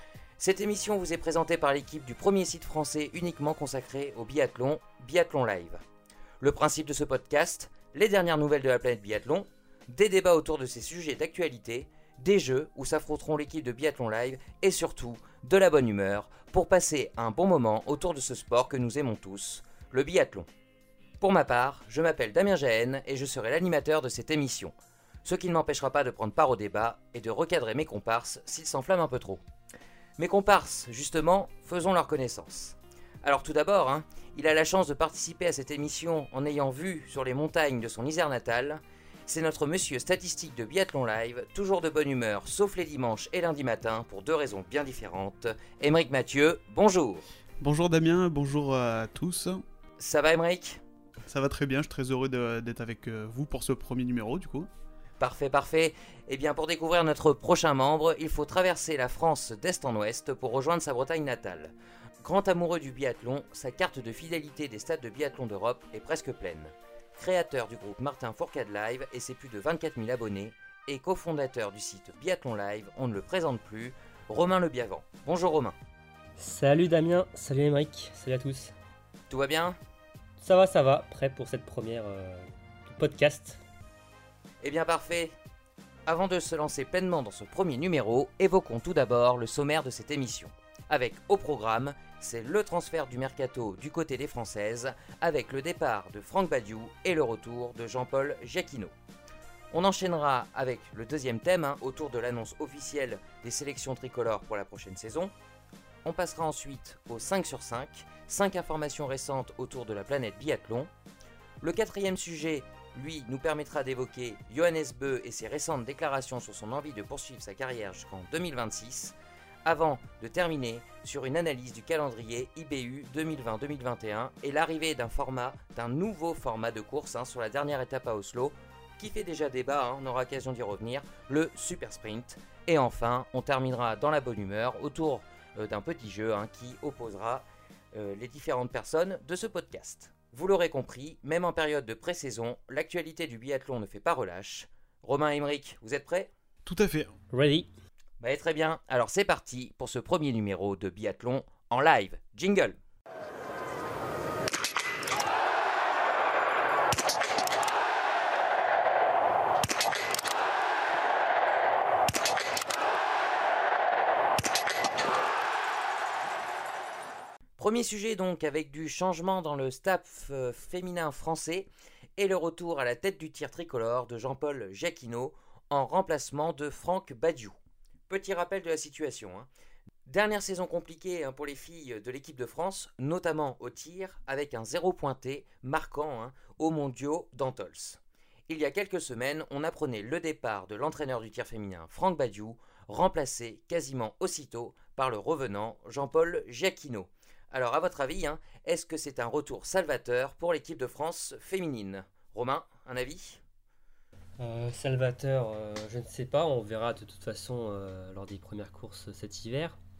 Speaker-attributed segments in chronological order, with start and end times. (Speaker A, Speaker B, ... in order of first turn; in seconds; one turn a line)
Speaker A: 0.4-5.8
Speaker A: 6.4-20.5
Speaker A: 21.2-24.7
Speaker A: 25.2-29.4
Speaker A: 30.2-47.2
Speaker B: 47.6-49.6
Speaker A: 50.0-50.8
Speaker B: 51.2-54.7
Speaker A: 55.2-75.7
Speaker C: 76.4-78.7
Speaker A: 79.3-79.8
Speaker C: 80.4-83.6
Speaker A: 84.6-85.3
Speaker A: 86.0-98.9
Speaker A: 99.7-105.3
Speaker A: 106.0-110.9
Speaker A: 111.6-119.1
Speaker A: 119.6-146.3
Speaker B: 146.6-147.1
Speaker C: 147.3-147.7
Speaker A: 148.2-152.8
Speaker A: 167.6-177.6
Speaker A: 178.1-179.5
Speaker A: 180.1-203.4
Speaker C: 204.4-209.8